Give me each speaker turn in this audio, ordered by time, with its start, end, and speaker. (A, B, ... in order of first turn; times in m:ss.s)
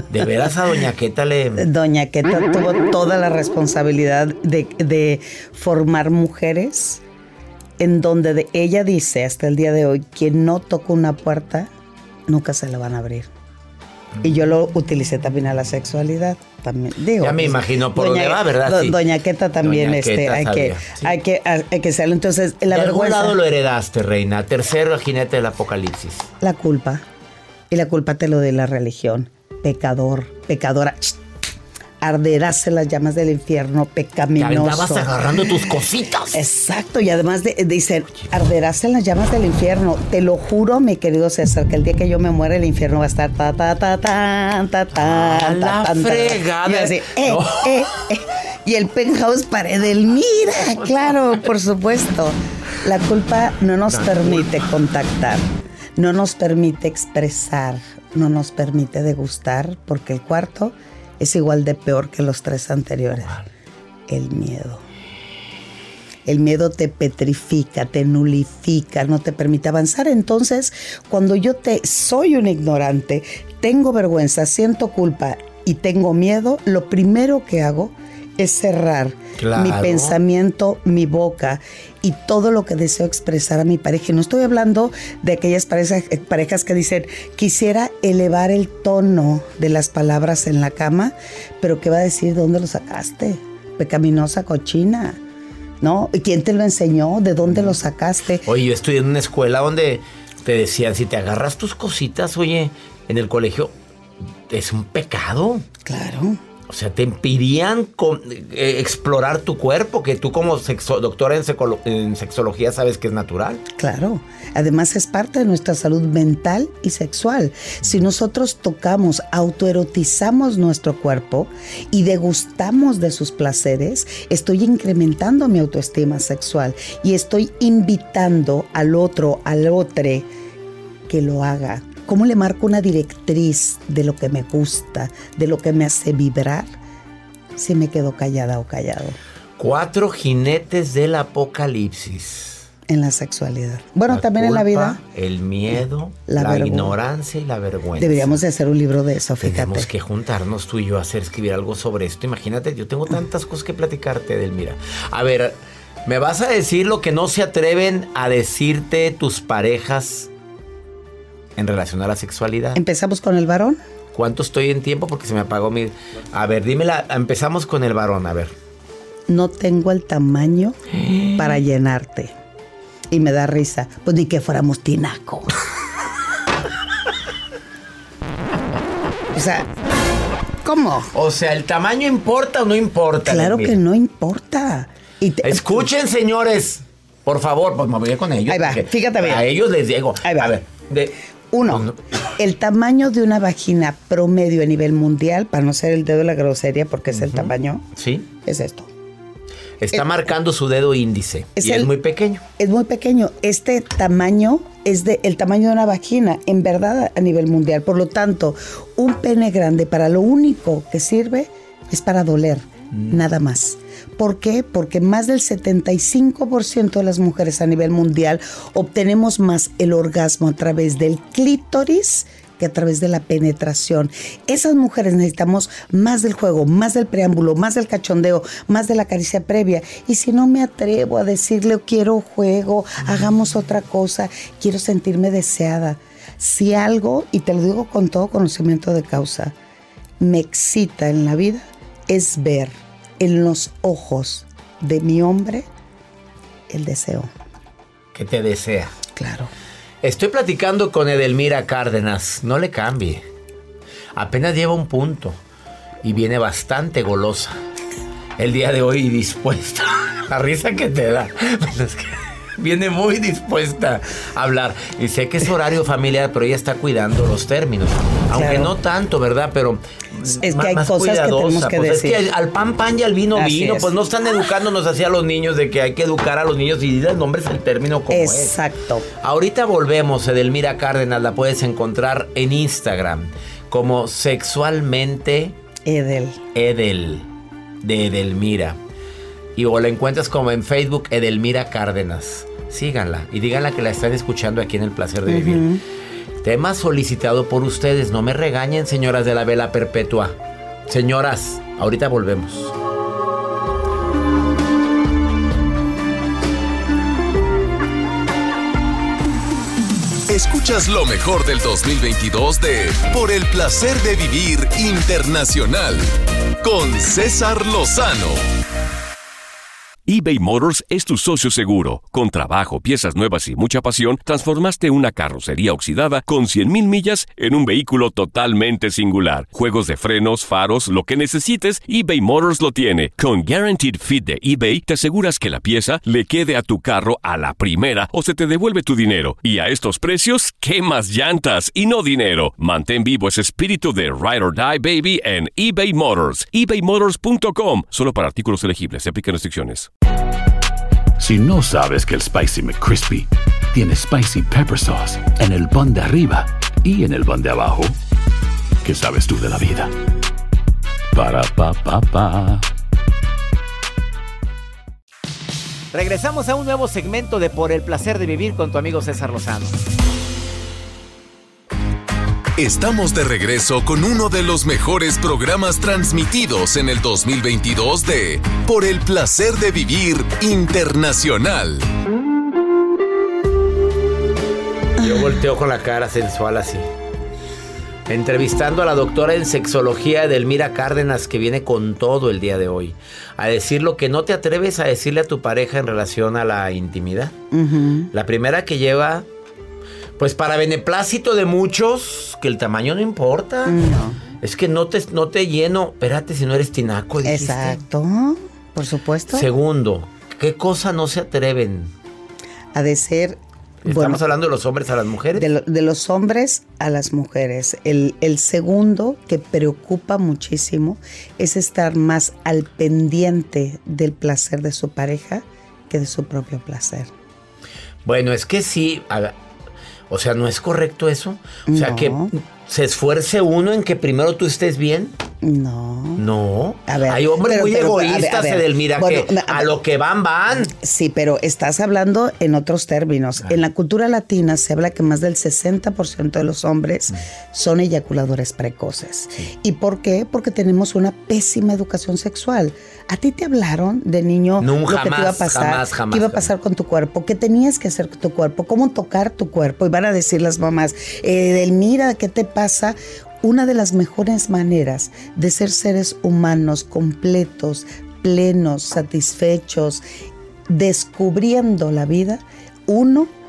0:00.1-0:01.7 A
0:01.6-0:07.0 B
0:07.8-0:11.7 B
0:12.3-0:13.3 B
0:14.2-0:23.4 B
0:17.2-0:19.0 A
0:19.6-0:21.1 A
0:22.7-0:26.3 A
0:26.4-0:27.0 B
0:27.7-0:31.2 B
0:32.0-0:35.8 B
0:34.4-0:36.4 A
0:36.3-1:03.3 B
0:44.9-0:47.8 A
0:53.9-0:54.5 A
1:04.1-1:04.8 B
1:06.2-1:35.2 B
1:19.4-1:20.2 A
1:35.8-1:38.4 B
1:37.4-1:37.8 A
1:38.4-1:43.7 A
1:44.5-1:45.6 A
1:45.8-1:46.4 B
1:46.7-1:53.6 A
1:53.8-2:10.3 B
2:11.1-2:16.7 B
2:17.6-2:19.2 B
2:19.6-2:22.6 A
2:22.9-2:25.0 B
2:24.1-2:28.4 A
2:26.3-2:27.0 B
2:28.0-2:29.9 B
2:29.4-2:40.3 A
2:41.6-2:42.8 A
2:42.7-2:43.8 B
2:44.1-2:48.5 A
2:49.3-2:50.8 B
2:50.9-2:51.6 A
2:51.4-2:52.3 B
2:53.1-2:55.5 B
2:59.3-2:59.7 B
3:00.6-3:01.1 B
3:01.1-3:03.8 A
3:03.2-3:05.7 B
3:05.4-3:11.1 A
3:08.5-3:09.4 B
3:10.2-3:10.5 B
3:11.5-3:17.8 B
3:11.7-3:12.0 A
3:17.1-3:18.3 A
3:18.4-3:18.9 B
3:19.8-3:22.4 A
3:19.9-3:20.2 B
3:21.6-3:21.9 B
3:22.6-3:59.5 B
4:00.2-4:05.7 B
4:06.7-4:07.3 B
4:08.1-4:08.9 A
4:09.1-4:09.5 B
4:10.0-4:13.2 A
4:14.2-4:15.4 A
4:16.0-4:17.6 A
4:18.4-4:38.6 A
4:28.3-4:28.7 B
4:30.4-4:32.2 B
4:33.3-4:33.9 B
4:38.1-4:39.0 B
4:39.2-4:45.5 A
4:45.8-4:46.4 B
4:46.5-4:47.3 A
4:47.8-4:48.8 A
4:49.6-4:55.7 A
4:55.2-4:55.8 B
4:56.4-5:00.4 A
5:00.9-5:02.7 A
5:10.3-5:18.4 C
5:20.1-5:49.9 D
5:51.2-5:58.0 E
5:58.8-5:59.9 E
6:01.1-6:02.6 E
6:05.9-6:09.8 A
6:12.6-6:21.9 C
6:25.0-6:25.3 B
6:25.0-6:26.8 A
6:28.1-6:37.3 A
6:37.5-6:38.1 B
6:38.1-6:39.2 A
6:40.2-6:43.8 A
6:43.6-6:44.2 B
6:44.4-6:47.8 A
6:47.2-6:49.5 B
6:49.3-6:51.9 A
6:52.7-6:54.2 B
6:53.8-6:55.4 A
6:55.3-7:07.1 B
7:08.0-7:09.3 A
7:10.1-7:15.1 A
7:11.7-7:12.3 B
7:15.4-7:16.2 B
7:16.2-7:20.7 A
7:16.9-7:19.7 B
7:20.7-7:50.0 B
7:34.6-7:36.5 A
7:50.7-7:53.3 B